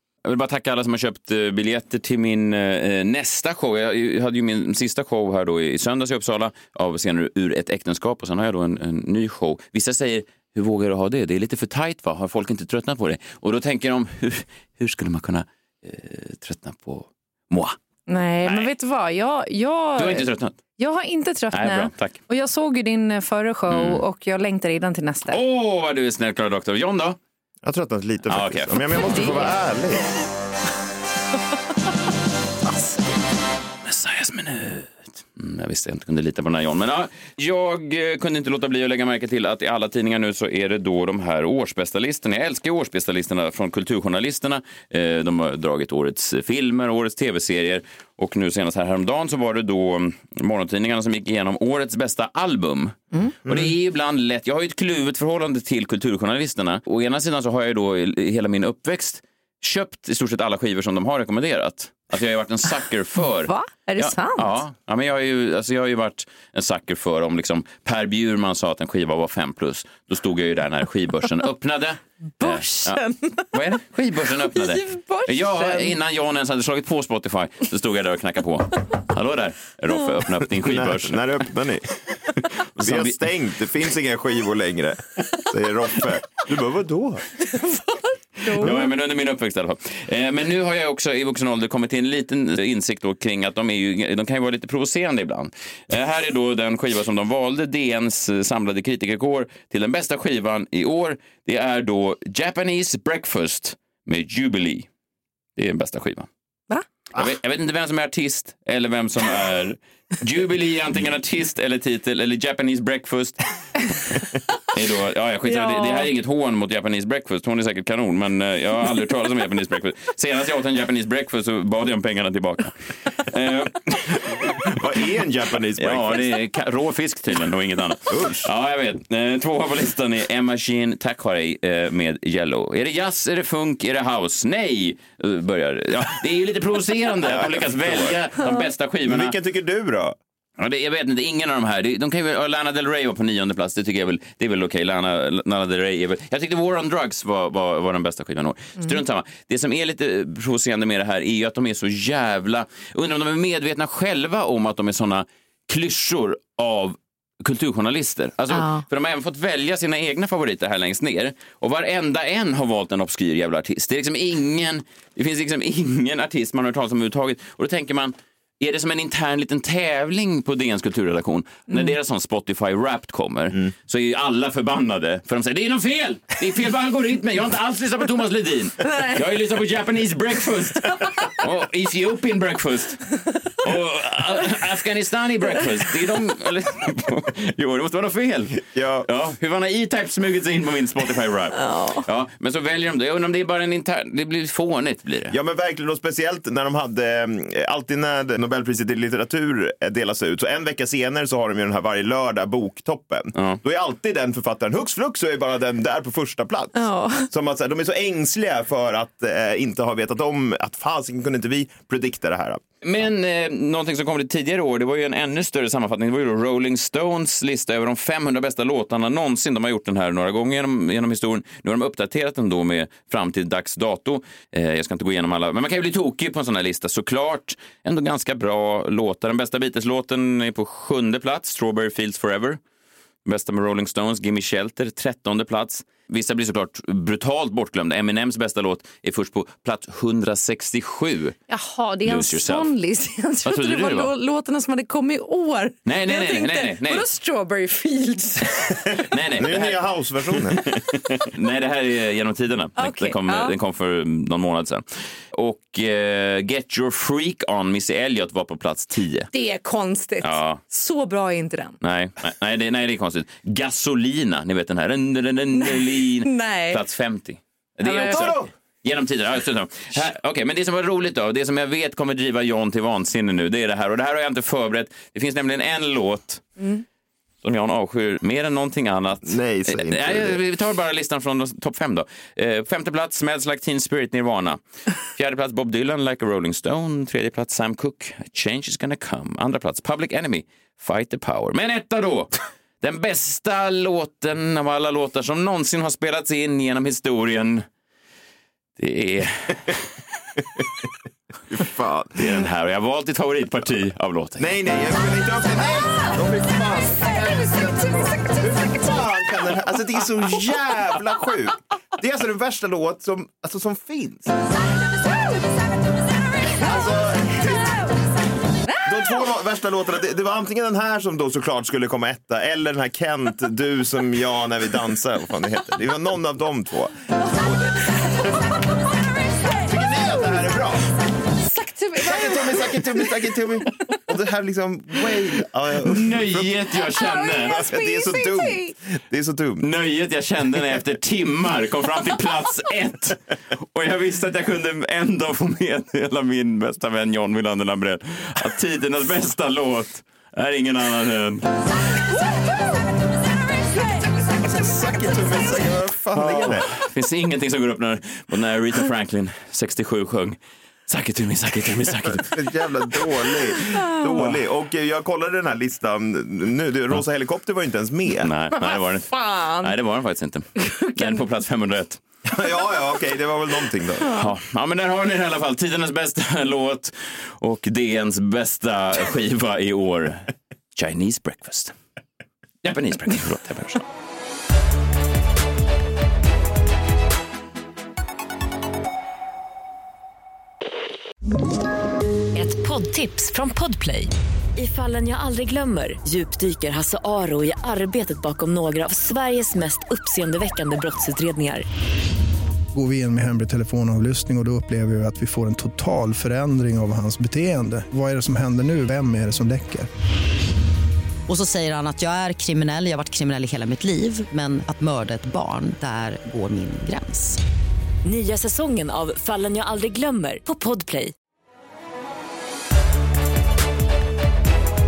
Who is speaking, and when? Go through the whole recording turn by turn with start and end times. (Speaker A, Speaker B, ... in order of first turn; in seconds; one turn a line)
Speaker A: 0.2-17.8
Speaker B: 18.1-25.4
Speaker A: 18.4-18.7
Speaker A: 19.9-20.6
Speaker A: 21.5-22.2
Speaker A: 23.7-24.0
Speaker A: 25.3-27.2
Speaker C: 27.6-30.1
Speaker A: 28.3-29.4
Speaker B: 29.0-29.5
Speaker B: 32.7-33.0
Speaker A: 33.8-73.0
Speaker C: 53.5-53.7
Speaker B: 63.3-64.6
Speaker B: 72.4-73.5
Speaker A: 73.5-81.5
Speaker B: 74.4-76.0
Speaker C: 80.5-82.0
Speaker A: 82.7-83.2
Speaker C: 82.8-87.3
Speaker B: 87.5-88.9
Speaker A: 88.5-104.9
Speaker A: 105.5-106.3
Speaker A: 107.1-113.4
Speaker A: 114.7-124.7
Speaker B: 115.4-116.1
Speaker C: 124.6-126.2
Speaker A: 125.8-139.4
Speaker C: 128.1-128.5
Speaker C: 137.2-138.2
Speaker C: 139.0-140.2
Speaker A: 140.6-183.0
Speaker B: 158.5-158.8
Speaker B: 171.7-171.9
Speaker A: 183.6-195.3
Speaker C: 188.7-189.1
Speaker B: 191.6-192.0
Speaker C: 195.3-212.6
Speaker A: 203.3-203.6
Speaker B: 206.7-207.3
Speaker A: 212.8-232.6
Speaker A: 233.2-241.4
Speaker B: 241.5-249.0
Speaker A: 242.0-242.7
Speaker A: 243.4-244.1
Speaker A: 245.8-247.0
Speaker A: 249.0-259.3
Speaker C: 249.3-250.6
Speaker B: 252.8-253.5
Speaker B: 259.3-261.8
Speaker A: 260.2-260.6
Speaker A: 261.8-276.5
Speaker B: 265.5-266.8
Speaker B: 267.8-268.4
Speaker C: 268.0-268.5
Speaker A: 277.4-297.6
Speaker C: 279.2-280.4
Speaker A: 298.8-299.9
Speaker C: 301.5-302.5
Speaker A: 302.1-304.5
Speaker C: 304.4-314.3
Speaker B: 307.2-308.8
Speaker C: 316.4-317.9
Speaker B: 316.6-318.0
Speaker B: 318.7-319.1
Speaker C: 318.8-327.7
Speaker C: 329.6-330.8
Speaker B: 330.1-330.4
Speaker B: 331.4-333.1
Speaker C: 331.9-336.8
Speaker A: 335.9-337.6
Speaker B: 336.8-338.7
Speaker C: 337.4-339.6
Speaker A: 339.6-343.2
Speaker A: 343.7-351.5
Speaker C: 354.4-356.7
Speaker A: 356.1-362.4
Speaker C: 362.1-368.3
Speaker B: 363.7-364.2
Speaker A: 368.2-372.0
Speaker B: 368.5-369.8
Speaker B: 370.6-371.2
Speaker C: 372.2-374.1
Speaker A: 374.0-381.7
Speaker A: 382.6-383.8
Speaker D: 392.3-401.6
Speaker E: 402.7-409.9
Speaker F: 411.3-417.4
Speaker D: 418.0-421.1